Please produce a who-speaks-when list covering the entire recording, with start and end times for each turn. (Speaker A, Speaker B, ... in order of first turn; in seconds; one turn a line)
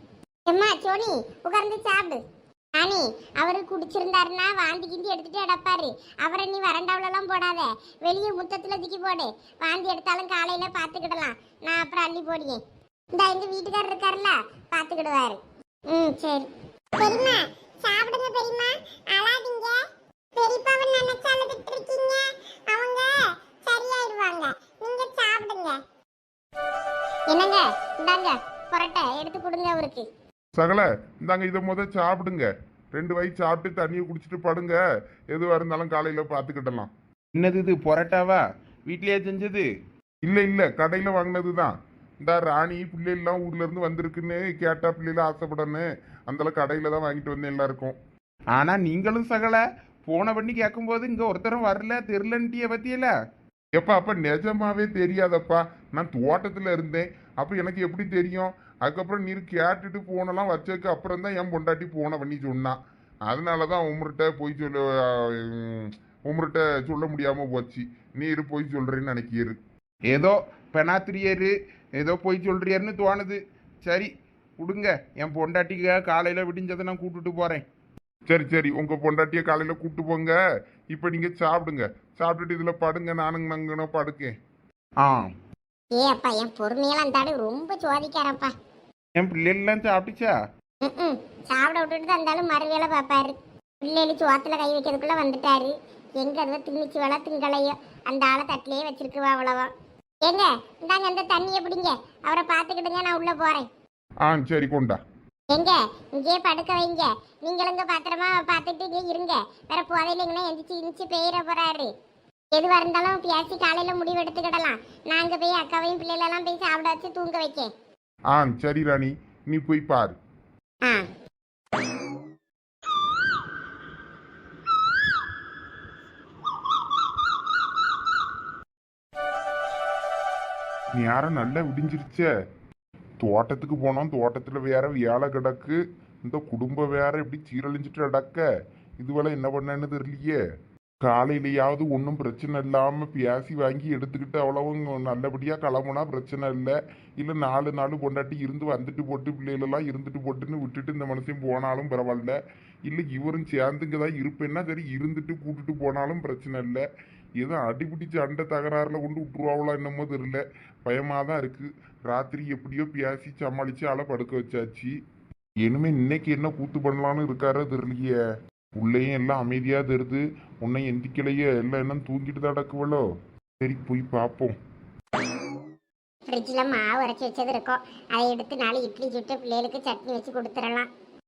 Speaker A: 0.5-2.2
Speaker A: 2.8-12.6
Speaker A: 13.1-19.8
Speaker A: 20.4-25.8
Speaker A: 27.3-30.1
Speaker B: 30.6-34.8
Speaker B: 35.3-36.9
Speaker C: 37.4-39.7
Speaker B: 40.2-48.0
Speaker C: 48.5-53.1
Speaker B: 53.8-62.8
Speaker B: 63.3-69.6
Speaker C: 70.1-77.6
Speaker B: 78.3-80.4
Speaker B: 80.9-84.3
Speaker C: 85.0-85.3
Speaker A: 86.0-88.5
Speaker C: 89.2-90.3
Speaker A: 90.8-99.7
Speaker A: 100.2-103.7
Speaker B: 104.2-105.0
Speaker A: 105.5-111.9
Speaker A: 112.5-117.7
Speaker B: 118.3-120.2
Speaker A: 120.8-121.1
Speaker B: 130.9-132.3
Speaker B: 133.2-138.5
Speaker B: 139.0-140.4
Speaker B: 141.0-156.8
Speaker B: 157.4-164.9
Speaker B: 165.6-168.2
Speaker B: 168.8-173.0
Speaker B: 173.6-174.6
Speaker A: 176.3-180.9